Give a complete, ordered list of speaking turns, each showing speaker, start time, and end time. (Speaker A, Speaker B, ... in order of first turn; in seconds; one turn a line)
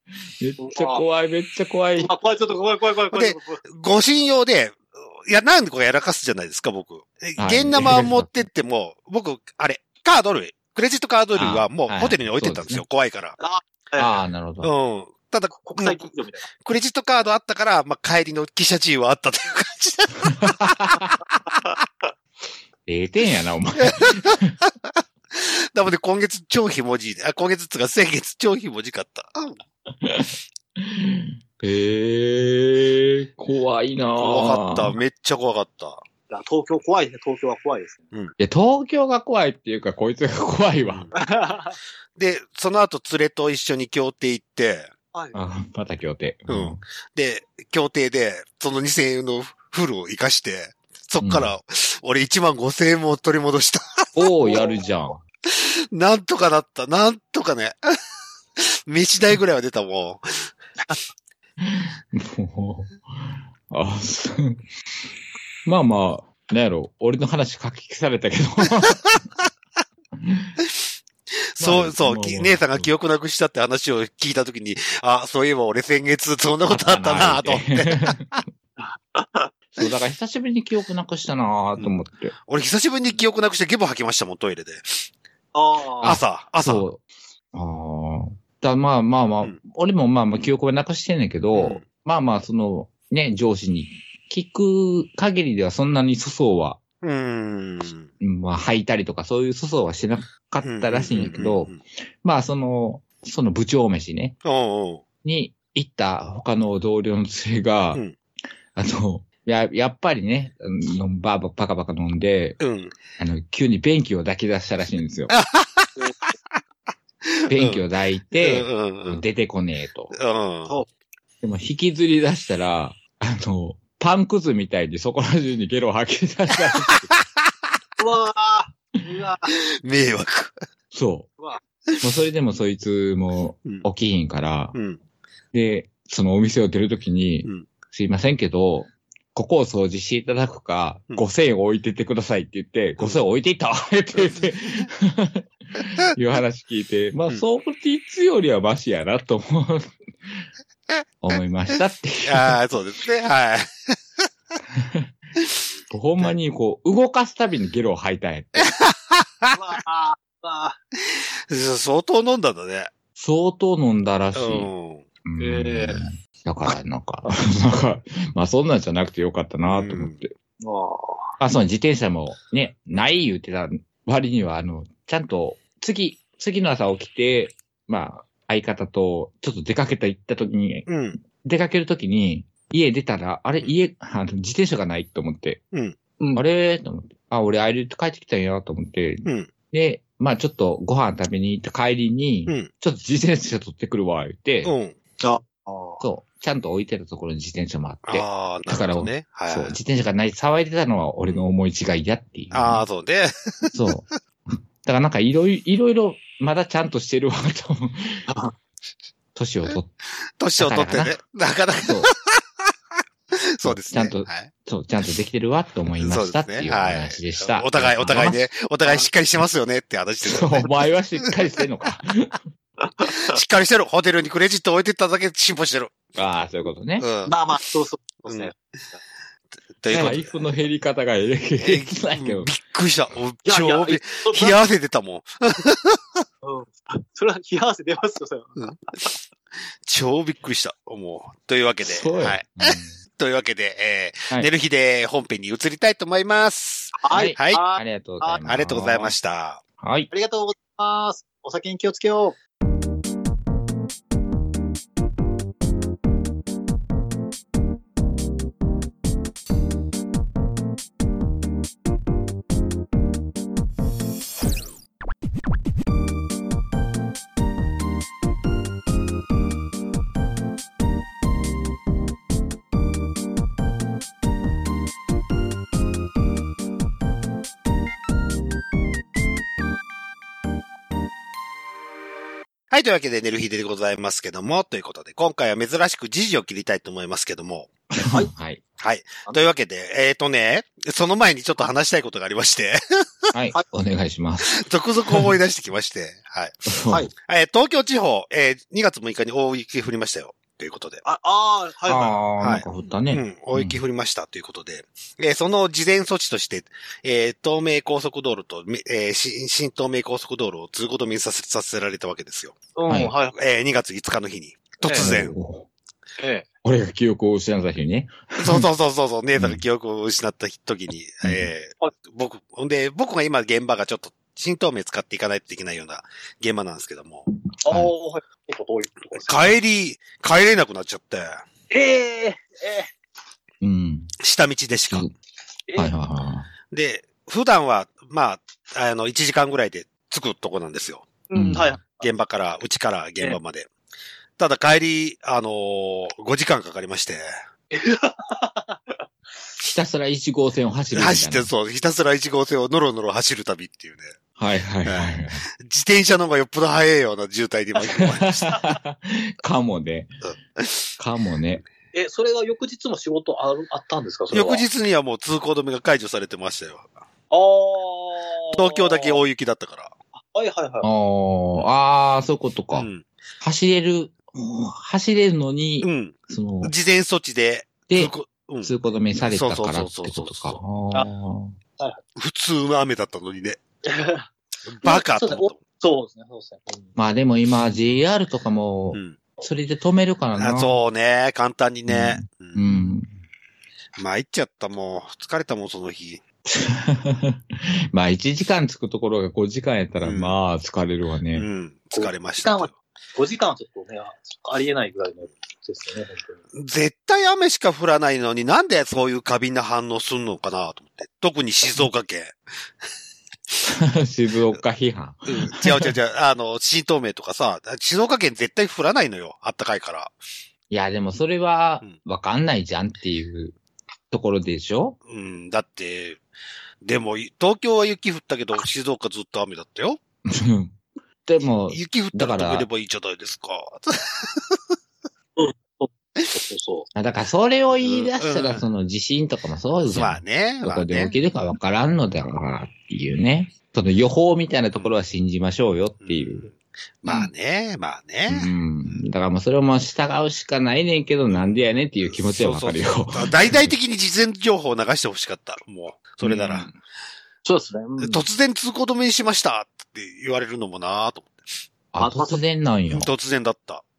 Speaker A: 0.4-2.1
Speaker B: 0.6-1.0
Speaker B: 2.0-3.6
Speaker C: 3.1-13.4
Speaker A: 7.4-8.4
Speaker A: 11.3-12.8
Speaker B: 13.4-14.2
Speaker A: 14.0-14.7
Speaker C: 14.6-20.5
Speaker B: 15.6-16.5
Speaker A: 20.3-21.2
Speaker A: 22.9-24.6
Speaker C: 23.8-29.6
Speaker A: 29.9-35.0
Speaker C: 34.2-36.0
Speaker B: 36.3-38.1
Speaker A: 38.4-41.1
Speaker C: 40.8-41.1
Speaker B: 41.1-41.8
Speaker C: 42.1-44.9
Speaker A: 45.3-46.8
Speaker C: 46.5-54.7
Speaker A: 51.2-51.5
Speaker A: 54.2-55.2
Speaker B: 54.4-54.7
Speaker C: 55.5-57.8
Speaker C: 58.6-60.5
Speaker A: 61.6-64.7
Speaker A: 65.7-69.2
Speaker A: 70.1-70.5
Speaker C: 71.6-78.1
Speaker A: 71.6-72.9
Speaker A: 76.7-78.4
Speaker B: 78.8-79.5
Speaker A: 79.7-82.3
Speaker C: 81.8-85.1
Speaker B: 85.5-86.2
Speaker C: 86.0-86.8
Speaker A: 86.0-87.0
Speaker A: 87.5-96.8
Speaker C: 91.5-91.8
Speaker C: 97.0-98.1
Speaker A: 98.2-104.3
Speaker C: 100.6-101.8
Speaker C: 104.4-105.0
Speaker A: 105.2-108.0
Speaker A: 108.7-112.6
Speaker C: 112.6-113.0
Speaker A: 113.2-115.3
Speaker C: 115.3-115.9
Speaker C: 117.2-119.2
Speaker A: 117.5-120.1
Speaker C: 120.1-120.7
Speaker A: 121.4-127.2
Speaker B: 128.0-129.5
Speaker C: 129.5-130.6
Speaker A: 130.9-131.3
Speaker A: 132.0-134.7
Speaker C: 134.7-135.0
Speaker A: 135.5-150.5
Speaker C: 144.2-144.8
Speaker A: 151.2-152.6
Speaker C: 152.2-153.9
Speaker A: 154.7-155.1
Speaker A: 155.9-158.7
Speaker C: 158.6-159.6
Speaker B: 159.5-160.8
Speaker C: 161.1-162.9
Speaker A: 163.2-164.7
Speaker C: 164.3-165.0
Speaker A: 165.2-170.3
Speaker B: 165.4-166.0
Speaker C: 169.6-170.1
Speaker B: 170.6-171.3
Speaker A: 171.4-185.6
Speaker C: 180.9-181.2
Speaker A: 186.3-194.7
Speaker C: 189.2-189.5
Speaker C: 194.6-194.9
Speaker B: 195.2-196.0
Speaker A: 196.0-202.8
Speaker C: 198.1-199.8
Speaker C: 202.5-203.7
Speaker A: 203.7-208.2
Speaker B: 208.3-208.5
Speaker A: 209.3-209.9
Speaker C: 210.4-212.4
Speaker A: 210.6-211.2
Speaker C: 213.3-214.5
Speaker A: 213.6-218.4
Speaker C: 216.0-220.7
Speaker A: 220.2-222.4
Speaker B: 222.8-223.4
Speaker C: 223.3-226.1
Speaker A: 226.1-227.1
Speaker C: 227.0-227.4
Speaker B: 227.2-229.0
Speaker C: 228.3-228.5
Speaker C: 229.8-230.3
Speaker A: 229.9-232.5
Speaker C: 231.6-236.2
Speaker B: 233.4-234.6
Speaker B: 236.4-239.1
Speaker C: 239.8-247.6
Speaker A: 241.8-242.9
Speaker B: 247.0-248.4
Speaker A: 247.1-249.1
Speaker C: 248.4-249.6
Speaker A: 249.8-250.1
Speaker B: 250.1-252.4
Speaker C: 282.7-287.7
Speaker A: 287.9-288.6
Speaker B: 288.0-288.3
Speaker C: 288.8-293.3
Speaker A: 293.3-294.5
Speaker C: 294.4-301.0
Speaker A: 296.7-297.1
Speaker B: 301.0-302.1
Speaker A: 301.9-303.8
Speaker C: 302.4-312.6
Speaker B: 312.8-313.3
Speaker A: 312.9-313.1
Speaker C: 313.3-315.3
Speaker B: 314.9-315.1
Speaker A: 314.9-315.7
Speaker B: 316.2-316.4
Speaker A: 316.6-318.6
Speaker C: 318.4-327.2
Speaker A: 319.4-319.6
Speaker A: 321.2-321.5
Speaker B: 327.6-329.6
Speaker C: 329.2-331.4
Speaker B: 331.7-332.9
Speaker A: 333.6-334.1
Speaker C: 334.2-335.1
Speaker A: 335.8-336.5
Speaker C: 336.7-341.1
Speaker B: 341.3-342.1
Speaker A: 341.3-341.8
Speaker C: 342.0-343.7
Speaker C: 344.4-347.3
Speaker B: 347.7-349.0
Speaker A: 349.6-351.5
Speaker C: 350.9-354.1
Speaker A: 354.4-355.4
Speaker C: 354.8-358.6
Speaker A: 358.0-360.1
Speaker C: 360.2-360.9
Speaker A: 361.0-361.6
Speaker B: 361.9-364.7
Speaker C: 364.3-366.9
Speaker B: 367.3-369.2
Speaker C: 368.5-369.9
Speaker B: 370.1-370.9
Speaker A: 370.8-372.9
Speaker C: 372.7-373.0
Speaker A: 373.4-376.7
Speaker C: 375.8-380.6
Speaker A: 377.9-381.6
Speaker C: 382.1-383.6
Speaker B: 383.8-384.3
Speaker C: 384.7-385.6
Speaker B: 384.8-386.9
Speaker A: 386.9-390.8
Speaker C: 388.9-389.2
Speaker C: 390.4-392.7
Speaker A: 391.9-393.1
Speaker C: 394.0-396.2
Speaker A: 396.5-401.5
Speaker C: 400.0-400.3
Speaker C: 401.3-402.7
Speaker B: 401.9-406.4
Speaker C: 406.5-412.4
Speaker A: 413.6-415.9
Speaker C: 415.3-420.1
Speaker A: 420.7-423.6
Speaker A: 424.1-425.0
Speaker C: 425.1-426.2
Speaker C: 426.8-430.0
Speaker A: 430.2-432.7
Speaker C: 431.7-434.6
Speaker B: 435.4-436.9
Speaker A: 436.9-446.5
Speaker C: 437.8-438.6
Speaker C: 439.9-441.1
Speaker C: 446.0-449.1
Speaker A: 448.3-453.7
Speaker C: 452.1-456.7
Speaker A: 456.2-456.7
Speaker B: 457.4-458.2
Speaker C: 458.0-461.4
Speaker A: 461.9-463.1
Speaker B: 462.0-462.4
Speaker C: 462.9-463.8